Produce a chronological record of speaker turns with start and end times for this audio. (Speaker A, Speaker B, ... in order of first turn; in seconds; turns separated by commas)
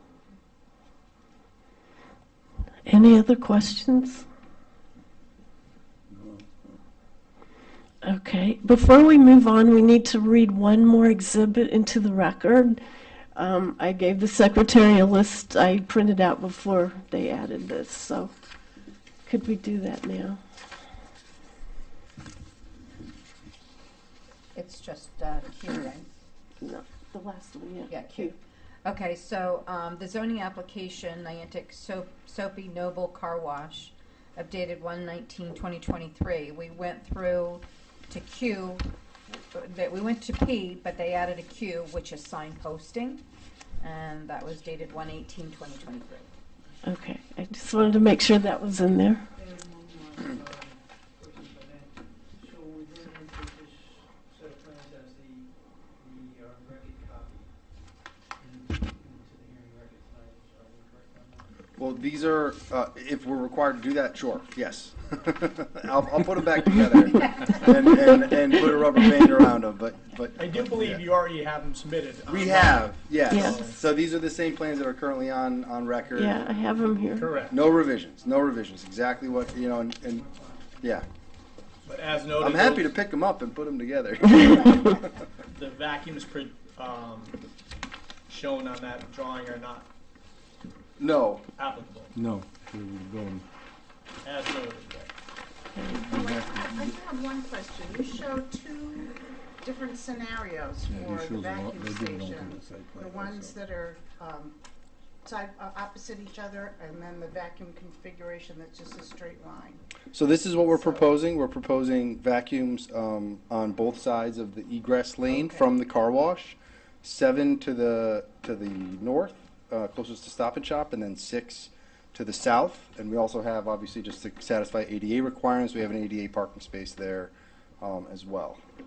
Speaker A: 2.9-4.2, Speaker B: 6.1-6.4, Speaker A: 8.0-12.8, Speaker A: 13.3-18.3, Speaker A: 19.2-20.4, Speaker C: 24.5-26.1, Speaker A: 26.6-28.3, Speaker C: 27.9-43.2, Speaker C: 43.8-46.3, Speaker A: 46.8-49.2, Speaker D: 49.4-57.5, Speaker E: 50.2-51.9, Speaker E: 54.4-54.8, Speaker D: 58.4-61.5, Speaker F: 61.8-71.0, Speaker E: 70.3-73.8, Speaker F: 72.3-76.5, Speaker A: 76.2-77.2, Speaker D: 76.2-76.5, Speaker E: 77.1-77.5, Speaker F: 77.5-80.2, Speaker D: 77.6-78.4, Speaker D: 79.6-81.0, Speaker F: 80.8-81.1, Speaker E: 81.8-83.0, Speaker F: 82.4-85.0, Speaker E: 85.5-87.4, Speaker E: 88.3-89.9, Speaker F: 91.0-91.5, Speaker E: 91.5-92.1, Speaker B: 92.1-93.4, Speaker E: 94.2-95.1, Speaker G: 95.9-104.5, Speaker B: 96.0-96.9, Speaker B: 100.9-103.6, Speaker G: 105.2-109.8, Speaker F: 110.1-128.6, Speaker G: 110.7-111.1, Speaker G: 115.2-115.7